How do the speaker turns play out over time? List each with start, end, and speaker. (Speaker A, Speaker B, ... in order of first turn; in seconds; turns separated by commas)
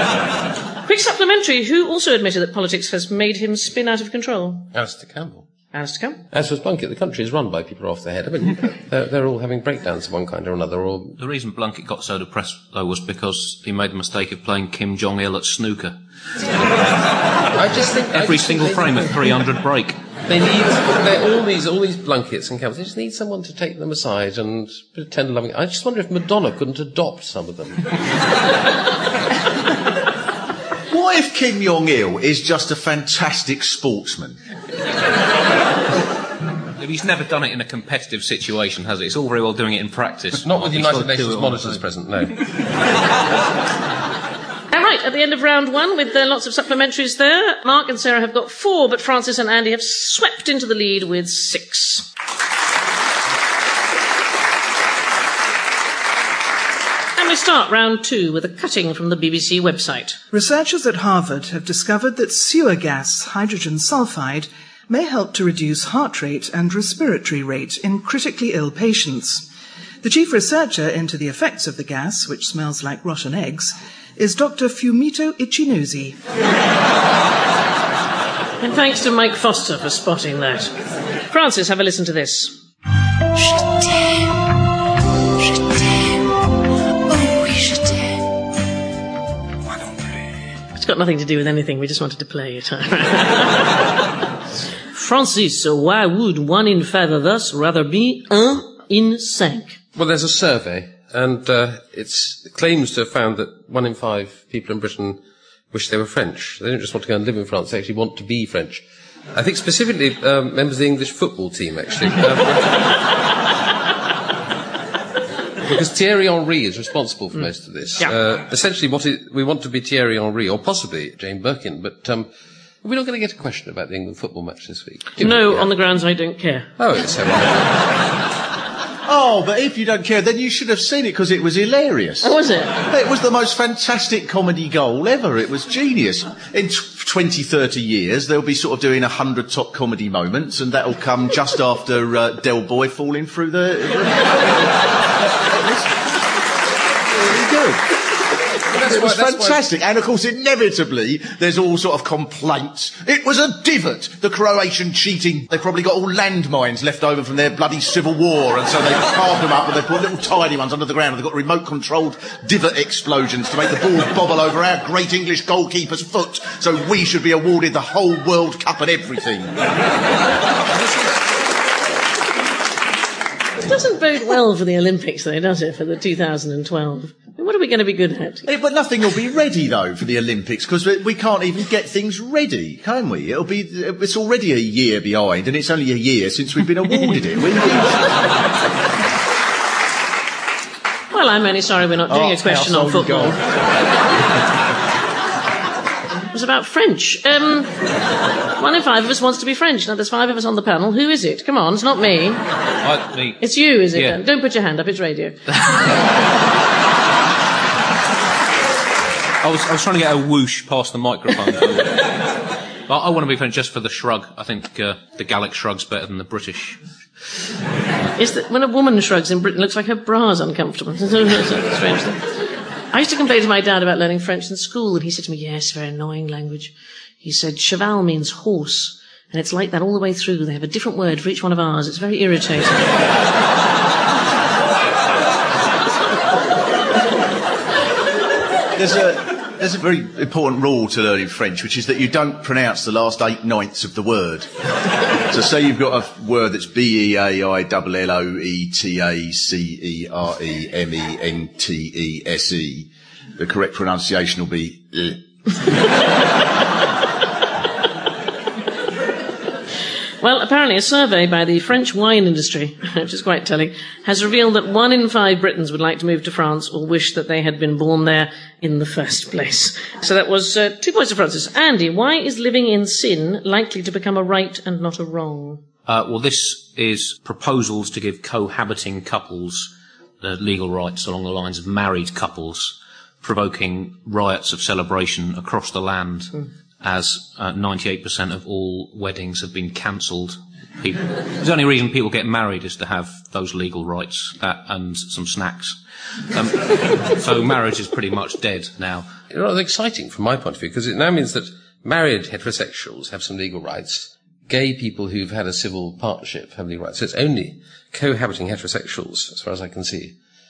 Speaker A: 0.8-4.7, Speaker B: 4.7-5.5, Speaker A: 5.7-6.2, Speaker B: 6.3-11.2, Speaker C: 11.2-16.0, Speaker B: 17.5-19.4, Speaker C: 18.1-20.0, Speaker B: 20.3-27.9, Speaker D: 30.9-34.4, Speaker C: 36.8-41.8, Speaker B: 40.4-42.4, Speaker A: 44.7-52.1, Speaker A: 57.2-60.2, Speaker E: 60.3-69.5, Speaker E: 70.0-76.2, Speaker A: 78.6-80.7, Speaker A: 81.3-82.6, Speaker A: 83.4-84.2, Speaker A: 85.6-86.1, Speaker A: 87.1-88.2, Speaker A: 90.7-93.8, Speaker A: 94.9-99.8, Speaker B: 100.0-105.2, Speaker B: 105.7-112.9, Speaker B: 115.7-122.3, Speaker B: 122.8-125.7, Speaker A: 125.2-126.7, Speaker B: 126.8-127.9, Speaker D: 129.1-144.5, Speaker A: 132.2-132.8, Speaker D: 147.2-147.9, Speaker B: 148.7-149.6, Speaker D: 148.7-169.6, Speaker A: 173.6-178.5, Speaker D: 178.5-188.1, Speaker A: 191.1-193.4, Speaker D: 192.1-193.4, Speaker A: 196.3-197.7, Speaker A: 198.6-202.4, Speaker C: 202.8-203.4, Speaker A: 203.4-205.4, Speaker C: 209.4-212.1, Speaker C: 212.9-216.8, Speaker A: 218.2-222.3, Speaker A: 222.9-233.0, Speaker D: 238.7-244.5, Speaker D: 245.2-255.2, Speaker A: 260.2-275.6, Speaker C: 275.9-295.8, Speaker C: 296.3-299.1, Speaker B: 299.3-310.2